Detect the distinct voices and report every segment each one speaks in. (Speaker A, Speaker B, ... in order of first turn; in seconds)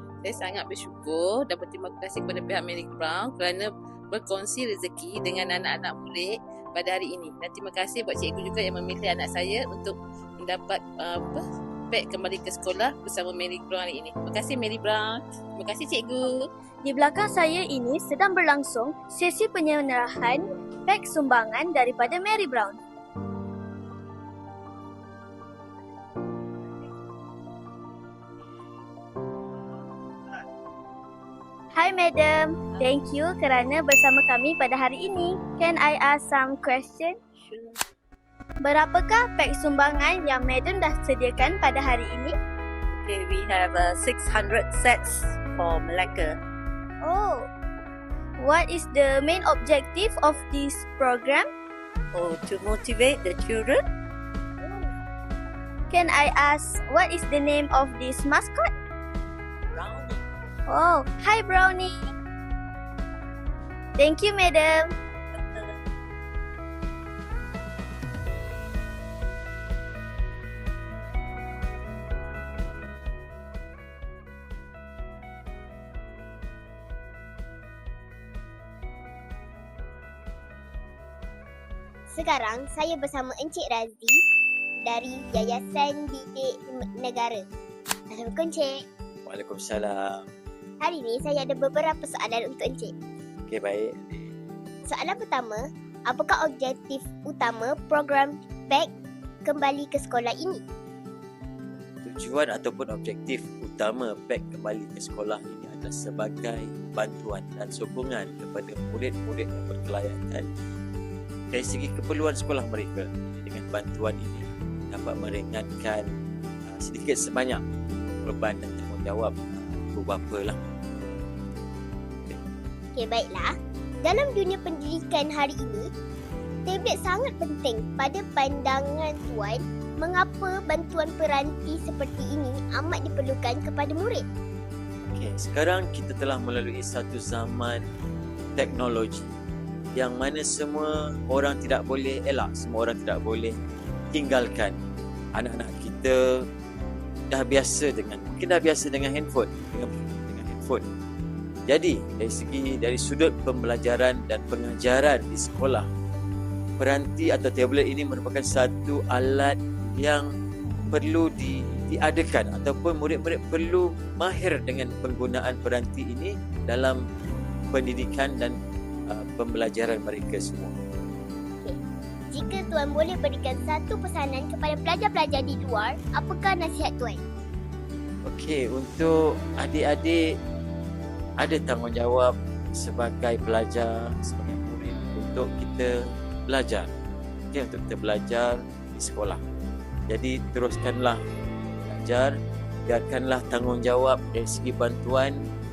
Speaker A: 0.2-16.5
Speaker B: 16.8-22.8, 31.8-37.2, 38.6-42.3, 47.0-47.5, 48.4-51.5, 55.9-58.7, 60.7-62.0, 64.0-64.9
Speaker C: 37.4-37.8, 43.0-46.4, 52.1-53.8, 59.8-60.2
Speaker D: 82.1-84.2, 84.8-87.4, 88.1-88.8, 90.8-92.9, 94.9-98.9, 99.5-100.6, 123.0-123.5, 124.0-125.9, 126.7-134.2, 172.3-177.2
Speaker E: 89.3-90.3, 93.5-94.3, 102.0-110.5, 111.5-116.1, 116.7-117.6, 118.2-121.2, 135.0-137.8, 138.6-139.3, 140.0-143.6, 144.1-144.8, 145.3-146.2, 147.3-150.8, 151.7-155.8, 156.8-160.3, 160.9-167.0, 167.7-168.6, 169.1-170.8, 178.3-180.2, 181.4-185.9, 186.5-186.9, 187.5-189.4, 190.1-191.2, 191.9-192.3, 192.9-195.4